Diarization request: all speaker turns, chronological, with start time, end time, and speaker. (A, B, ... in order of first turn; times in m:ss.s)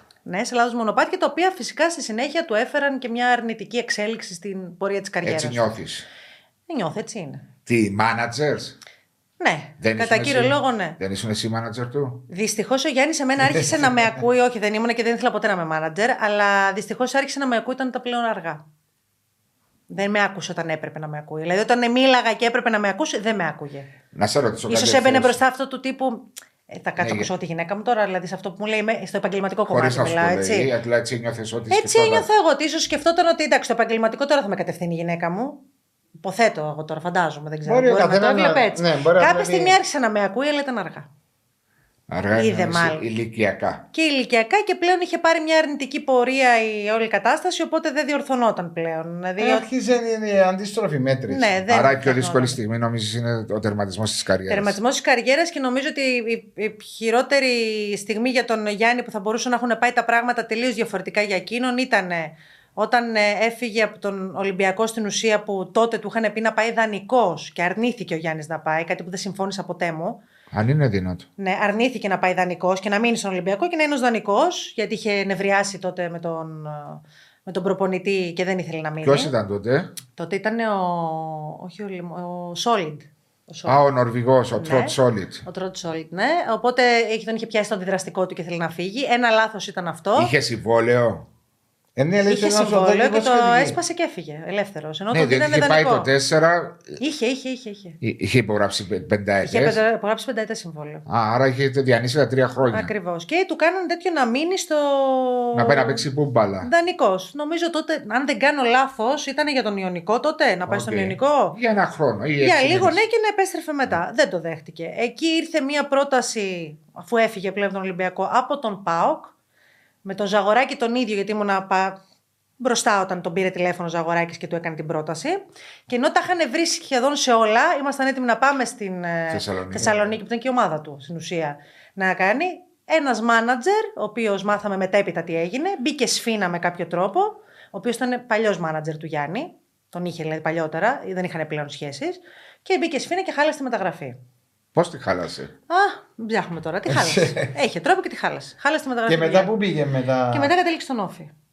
0:00.3-0:05.7 A
0:05.2-0:06.1 B
0:06.7-0:07.4 A
0:07.7-0:08.8 B
0:09.4-0:11.0 A
0:09.8-0:12.3 B
0:12.3-0:18.6 A
0:19.9-0:23.9 A
0:24.1-0:25.4 B
0:24.7-0:30.7 A
0:27.0-0:27.3 B
0:29.7-0:32.3 B
0:31.7-0:35.6 A
0:36.2-0:41.1 A
0:37.6-0:39.8 C
0:42.1-0:43.9 B
0:42.3-0:43.1 A
0:43.9-0:49.7 A
0:49.4-0:51.6 C
0:51.3-0:52.6 A
0:51.7-0:54.8 B
0:54.5-1:10.2 A
1:10.5-1:11.3 B
1:11.4-1:19.3 A
1:19.0-1:19.9 B
1:20.2-1:23.8 A
1:23.7-1:25.5 B
1:24.6-1:30.3 A
1:30.2-1:31.3 B
1:32.0-1:33.8 C
1:32.3-1:36.1 A
1:35.1-1:37.0 B
1:37.0-1:38.0 A
1:38.0-1:39.8 B
1:39.4-1:41.0 A
1:41.1-1:42.9 B
1:42.7-1:46.0 A
1:45.5-1:46.7 B
1:46.6-1:51.6 A
1:50.7-1:53.0 B
1:52.4-1:59.3 A
2:00.0-2:02.0 A
2:02.6-2:24.2 A
2:09.3-2:10.2 B
2:24.8-2:25.5 B
2:25.7-2:29.5 A
2:26.9-2:27.5 C
2:29.1-2:30.6 C
2:30.3-2:31.3 A